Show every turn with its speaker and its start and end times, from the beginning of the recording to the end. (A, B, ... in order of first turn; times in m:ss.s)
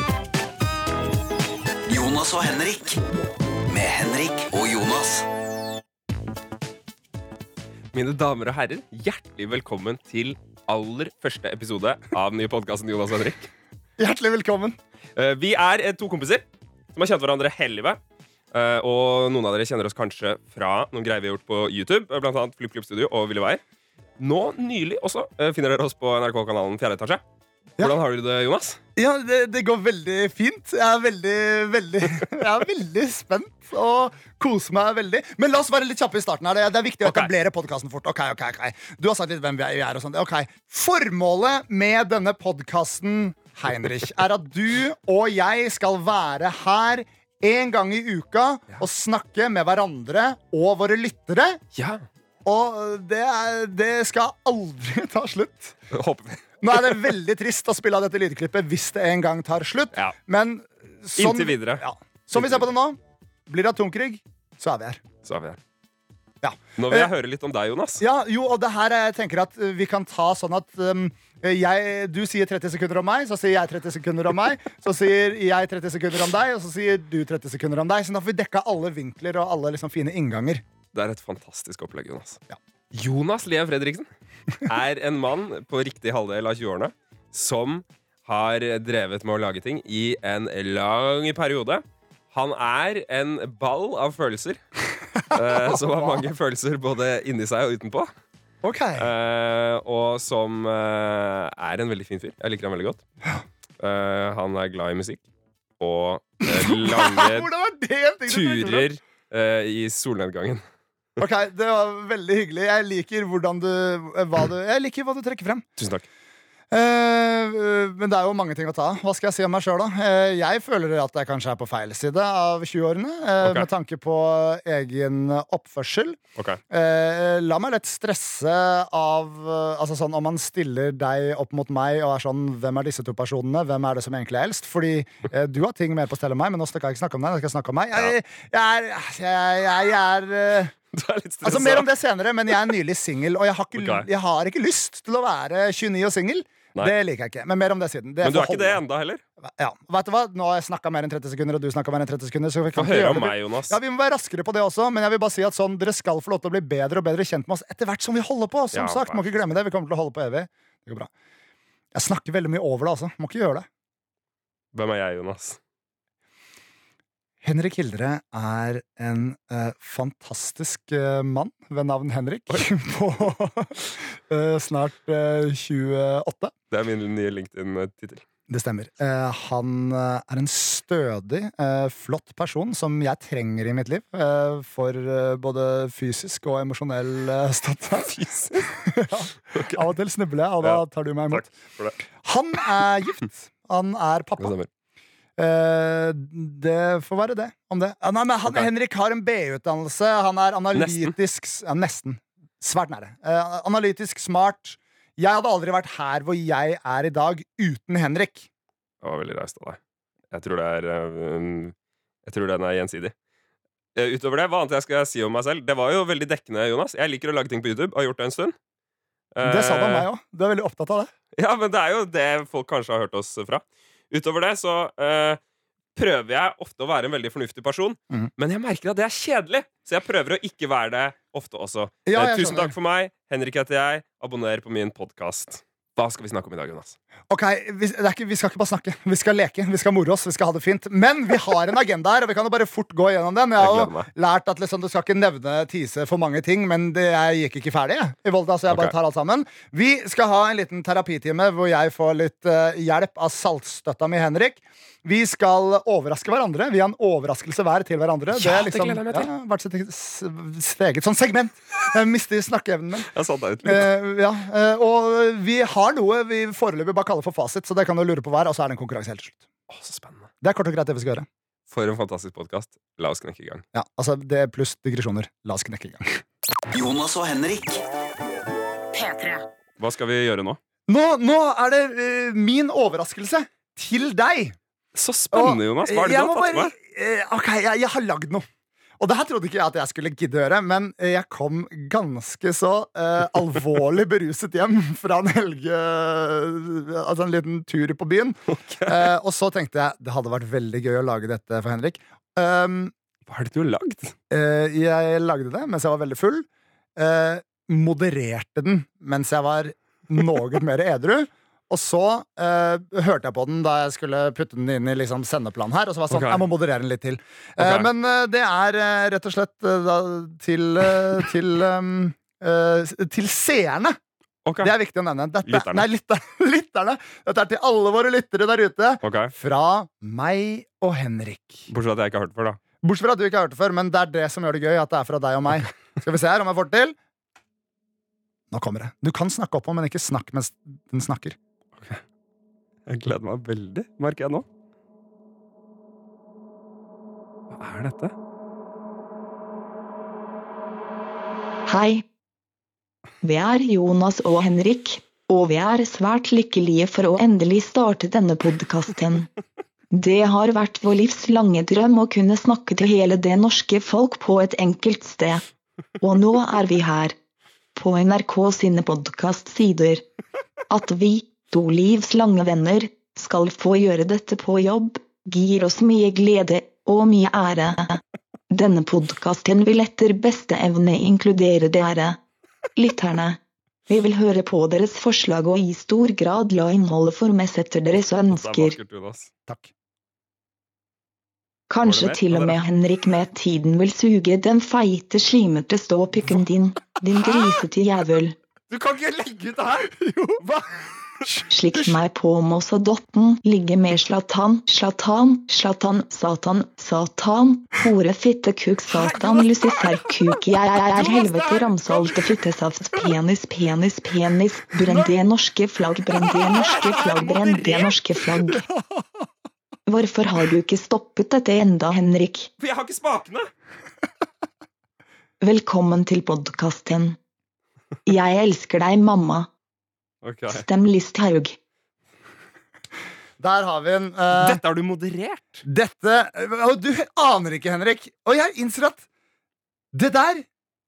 0:01.9-0:03.0 A
0:03.7-0:05.3 A
0:07.9-0:13.5 B
0:14.0-0:14.8 C
0:15.2-0:18.0 B
0:18.5-0:23.6 B
0:24.2-0:27.2 B
0:27.8-0:28.8 B
0:29.0-0:51.6 C
0:37.0-0:37.3 B
0:51.7-0:52.0 B
0:52.4-0:55.8 C
0:55.9-0:57.0 B
0:56.6-1:05.0 C
1:01.2-1:02.7 B
1:05.2-1:05.6 B
1:06.4-1:07.1 C
1:06.8-1:08.0 B
1:08.0-1:20.6 C
1:20.9-1:22.4 B
1:22.9-1:24.1 B
1:24.6-1:34.6 B
1:35.2-1:38.1 B
1:35.4-1:36.3 C
1:38.6-1:39.1 C
1:39.0-1:43.0 B
1:43.8-1:45.2 B
1:45.8-1:47.5 B
1:46.5-1:48.9 C
1:48.3-1:50.6 B
1:51.2-1:55.6 C
1:55.8-1:56.0 B
1:56.7-2:06.2 C
2:03.4-2:03.7 B
2:06.7-2:20.7 C
2:20.9-2:21.9 B
2:21.4-2:28.8 C
2:23.8-2:24.1 B
2:28.2-2:29.2 B
2:29.4-2:41.1 C
2:32.8-2:33.8 B
2:38.7-2:39.3 B
2:41.9-2:43.7 C
2:44.7-2:45.6 B
2:47.4-2:56.5 C
2:56.7-2:58.2 B
2:58.5-3:11.4 C
3:08.1-3:08.7 B
3:09.5-3:09.8 B
3:10.6-3:12.0 B
3:12.2-3:14.5 C
3:14.4-3:14.7 B
3:15.4-3:28.5 C
3:20.8-3:21.1 B
3:29.0-3:29.8 B
3:30.3-3:31.7 B
3:32.2-3:33.1 B
3:34.0-3:38.5 B
3:39.3-3:40.1 B
3:39.4-3:41.1 C
3:41.3-3:45.4 B
3:46.0-3:57.0 B
3:52.1-3:52.8 C
3:57.3-4:23.1 C
4:03.6-4:04.1 B
4:18.3-4:19.3 B
4:23.1-4:23.9 B
4:23.6-4:29.4 C
4:29.7-4:30.3 B
4:30.4-4:31.3 C
4:31.7-4:33.6 B
4:33.7-4:36.2 C
4:36.7-4:37.8 A
4:39.8-4:40.6 B
4:40.9-4:44.6 C
4:44.9-4:46.7 B
4:45.3-4:48.4 C
4:49.0-5:02.9 C
4:58.5-4:59.1 B
5:03.3-5:04.1 B
5:04.3-5:24.0 C
5:16.1-5:16.4 B
5:17.6-5:17.9 B
5:24.4-5:24.7 B
5:24.6-5:31.7 C
5:25.4-5:25.9 B
5:29.0-5:29.3 B
5:31.7-5:32.6 B
5:32.8-5:37.0 C
5:38.5-5:41.4 C
5:42.9-5:44.4 B
5:47.5-5:48.1 B
5:51.7-5:52.0 D
5:53.2-5:59.3 D
5:59.9-6:05.4 D
6:06.0-6:07.2 D
6:07.8-6:10.0 D
6:10.7-6:18.0 D
6:18.5-6:22.2 D
6:22.8-6:28.8 D
6:28.2-6:29.3 B
6:31.7-6:38.4 D
6:31.8-6:32.5 B
6:38.7-6:40.6 B
6:39.9-6:40.4 C
6:41.2-6:41.9 C
6:41.5-6:58.6 D
6:49.0-6:49.7 C
6:51.0-6:51.9 C
6:56.7-6:57.9 B
6:58.5-6:59.3 C
6:59.9-7:02.5 D
7:02.6-7:03.5 B
7:05.4-7:07.2 D
7:08.1-7:09.5 D
7:10.2-7:10.6 B
7:10.5-7:11.6 D
7:13.4-7:14.6 C
7:14.4-7:15.6 B
7:15.6-7:19.1 C
7:19.9-7:20.5 C